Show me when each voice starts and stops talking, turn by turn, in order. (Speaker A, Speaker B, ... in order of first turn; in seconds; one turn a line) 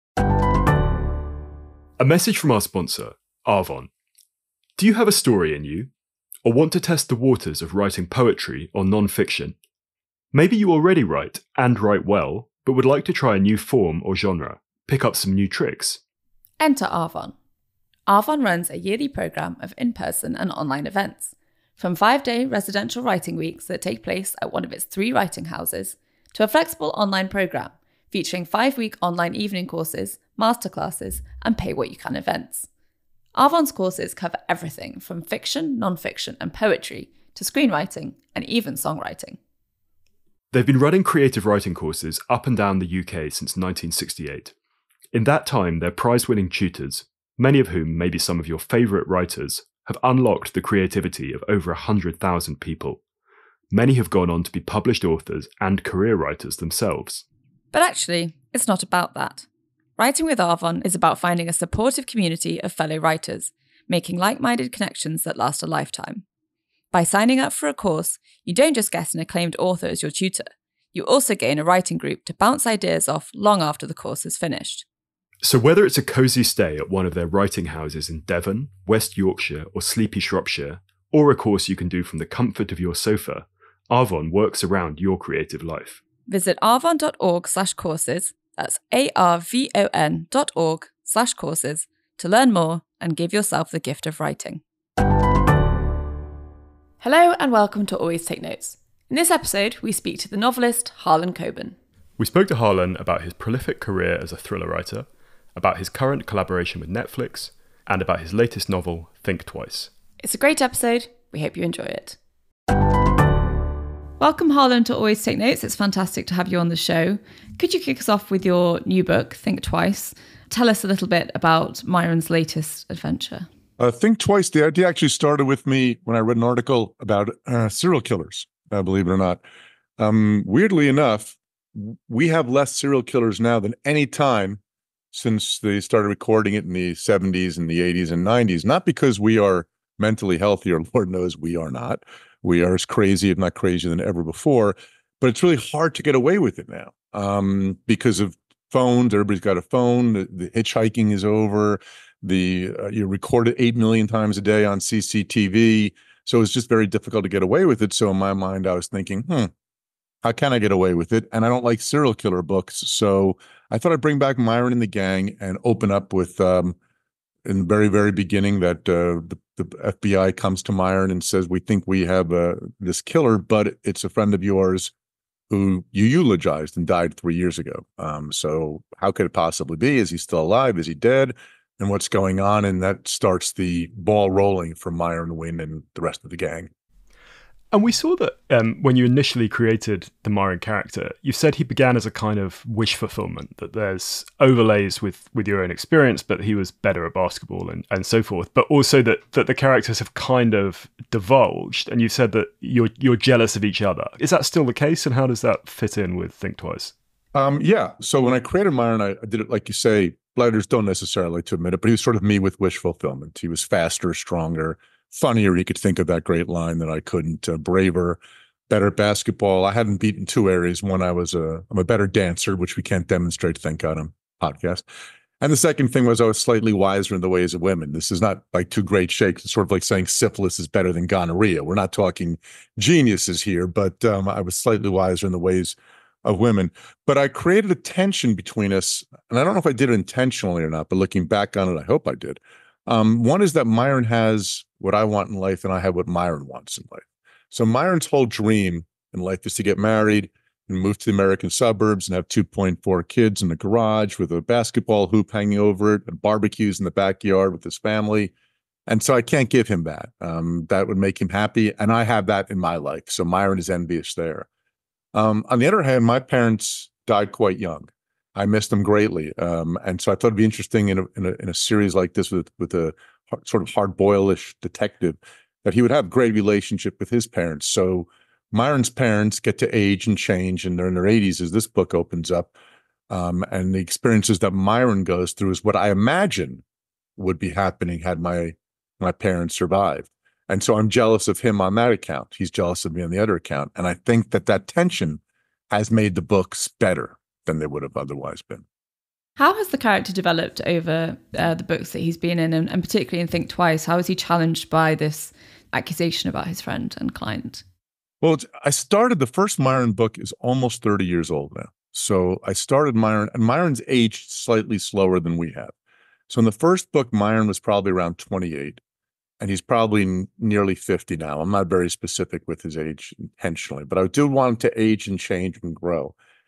Speaker A: 2.0-3.9
Speaker A: 4.8-5.9
Speaker A: 6.4-9.6
Speaker A: 10.3-16.0
Speaker B: 16.6-17.4
Speaker B: 18.1-32.7
Speaker B: 33.4-39.4
Speaker A: 40.5-44.5
Speaker A: 45.1-53.0
Speaker A: 53.7-57.2
Speaker B: 57.7-59.5
Speaker B: 60.0-66.2
Speaker B: 66.9-74.8
Speaker A: 75.4-86.0
Speaker B: 86.3-94.6
Speaker B: 97.0-101.8
Speaker A: 102.2-109.9
Speaker B: 110.2-112.2
Speaker B: 114.2-123.5
Speaker C: 123.8-129.4
Speaker C: 130.0-134.6
Speaker C: 135.1-159.5
Speaker C: 160.2-166.8
Speaker C: 167.4-174.9
Speaker C: 175.5-186.7
Speaker A: 187.7-206.9
Speaker C: 207.3-224.8
Speaker C: 225.4-258.3
Speaker C: 258.9-264.5
Speaker C: 265.1-282.5
Speaker C: 283.1-286.6
Speaker C: 287.2-295.2
Speaker C: 295.7-298.6
Speaker B: 299.4-307.6
Speaker C: 308.2-315.7
Speaker C: 316.3-318.8
Speaker C: 319.4-326.1